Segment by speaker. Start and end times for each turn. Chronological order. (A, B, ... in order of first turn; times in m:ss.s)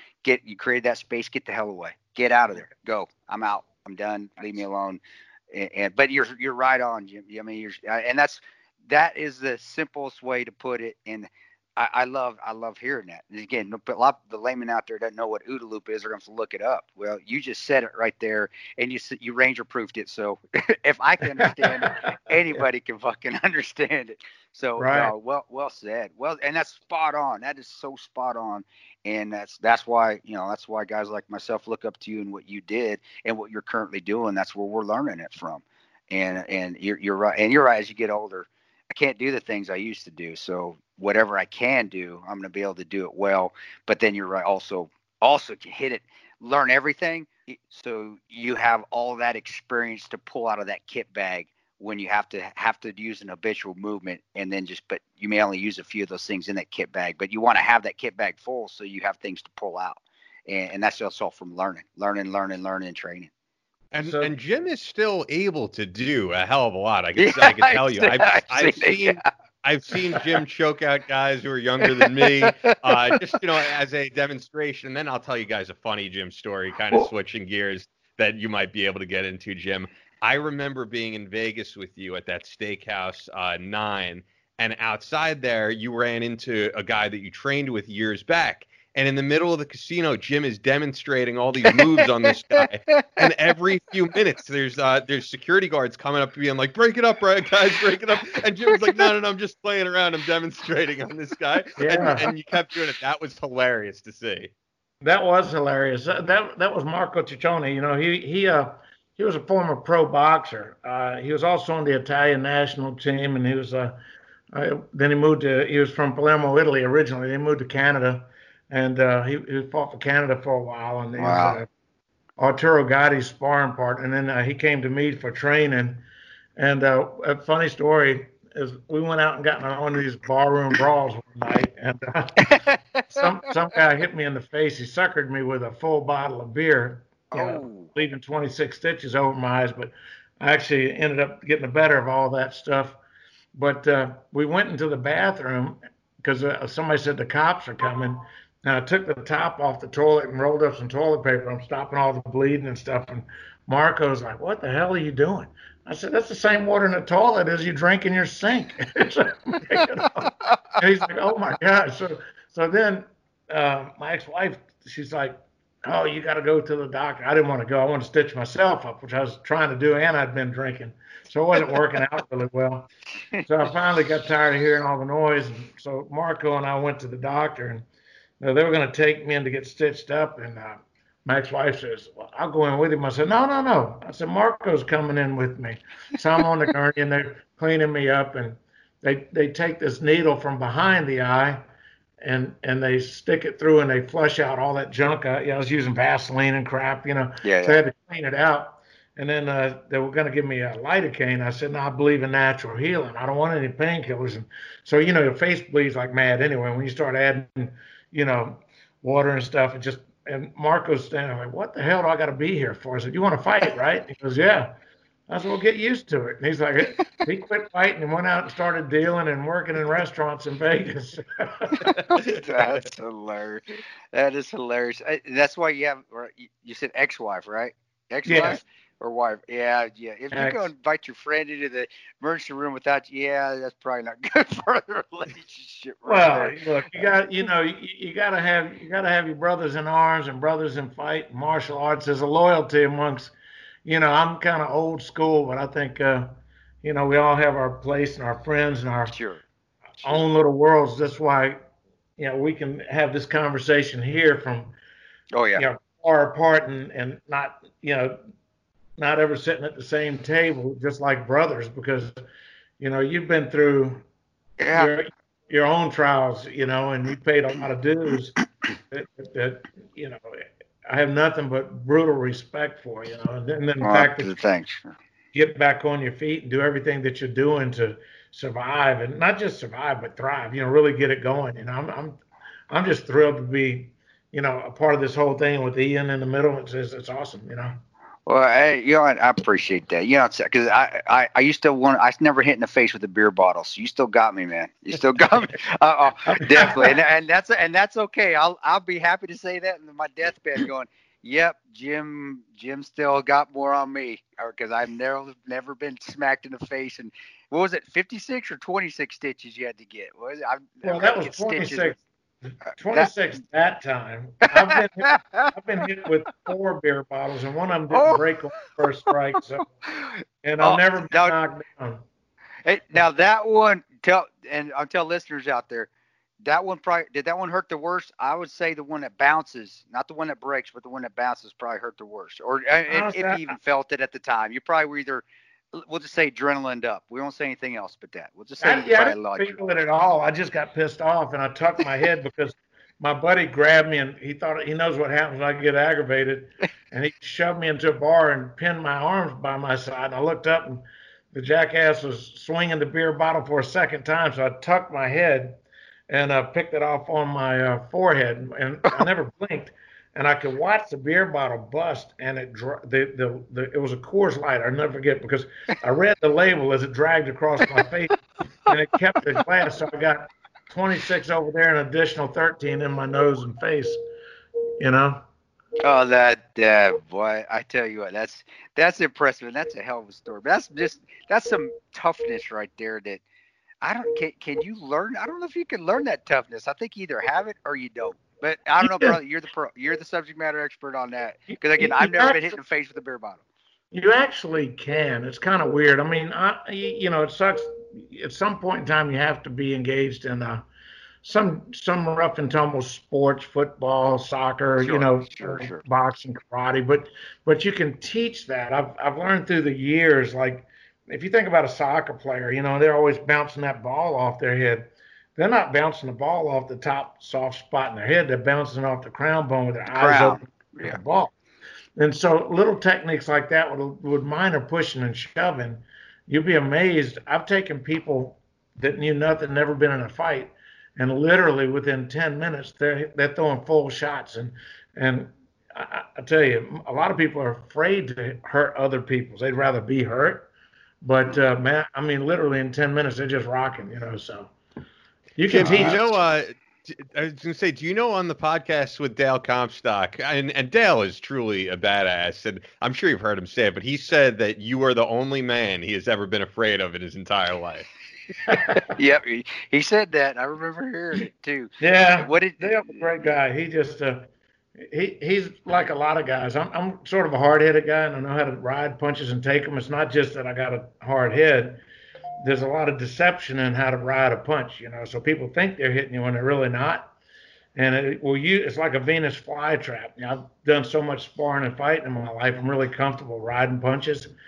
0:00.2-1:03.3 A
0:21.4-0:22.0 B
0:24.8-0:25.1 B
1:03.9-1:44.5 C
1:04.0-1:04.3 B
1:07.2-1:09.3 A
1:10.1-1:10.4 A
1:11.8-1:13.4 A
1:31.6-1:32.0 A
1:32.6-1:33.5 A
1:38.6-1:39.1 A
1:41.8-1:42.3 B
1:42.0-1:42.3 A
1:45.0-1:54.0 B
1:54.5-2:01.7 B
2:01.2-2:01.6 A
2:02.4-2:06.0 B
2:06.6-2:12.6 B
2:12.4-2:13.4 A
2:13.1-2:23.0 B
2:17.3-2:17.9 A
2:23.5-2:52.9 B
2:40.0-2:40.6 A
2:53.3-2:53.7 A
2:53.4-2:57.8 B
2:58.4-3:11.6 B
3:12.2-3:34.7 B
3:17.4-3:17.8 A
3:35.3-3:42.0 B
3:41.9-3:57.1 A
3:41.9-3:42.3 C
3:48.2-3:48.6 B
3:50.3-3:50.7 B
3:56.0-4:03.3 B
4:03.8-4:06.3 B
4:06.8-4:09.2 B
4:09.1-4:09.4 A
4:10.0-4:11.6 B
4:12.2-4:14.8 B
4:15.3-4:15.6 A
4:15.6-4:18.2 B
4:19.0-4:22.2 B
4:22.8-4:24.0 B
4:24.6-4:24.9 A
4:24.7-4:28.4 B
4:28.9-4:34.3 B
4:33.8-4:34.9 A
4:35.3-4:47.8 B
4:48.2-5:12.0 A
4:56.2-4:57.0 B
5:10.8-5:12.0 B
5:12.7-5:19.7 B
5:14.5-5:15.5 A
5:17.9-5:18.2 A
5:19.9-5:21.3 A
5:20.4-5:22.0 B
5:22.6-5:25.9 A
5:26.4-5:39.6 A
5:32.9-5:33.6 B
5:38.6-6:14.0 B
6:14.8-6:15.2 B
6:15.8-6:23.2 A
6:23.8-6:33.4 A
6:28.8-6:29.2 B
6:31.5-6:32.6 B
6:33.9-6:40.7 B
6:41.2-7:01.3 B
6:44.8-6:45.8 A
6:59.9-7:01.0 A
7:02.0-7:20.5 B
7:21.0-7:24.5 B
7:25.4-7:26.0 B
7:25.5-7:37.9 C
7:25.6-7:26.0 A
7:38.5-7:39.0 B
7:38.9-7:43.1 A
7:41.8-7:44.3 B
7:44.8-7:51.8 B
7:52.4-7:57.1 B
7:57.7-8:04.3 B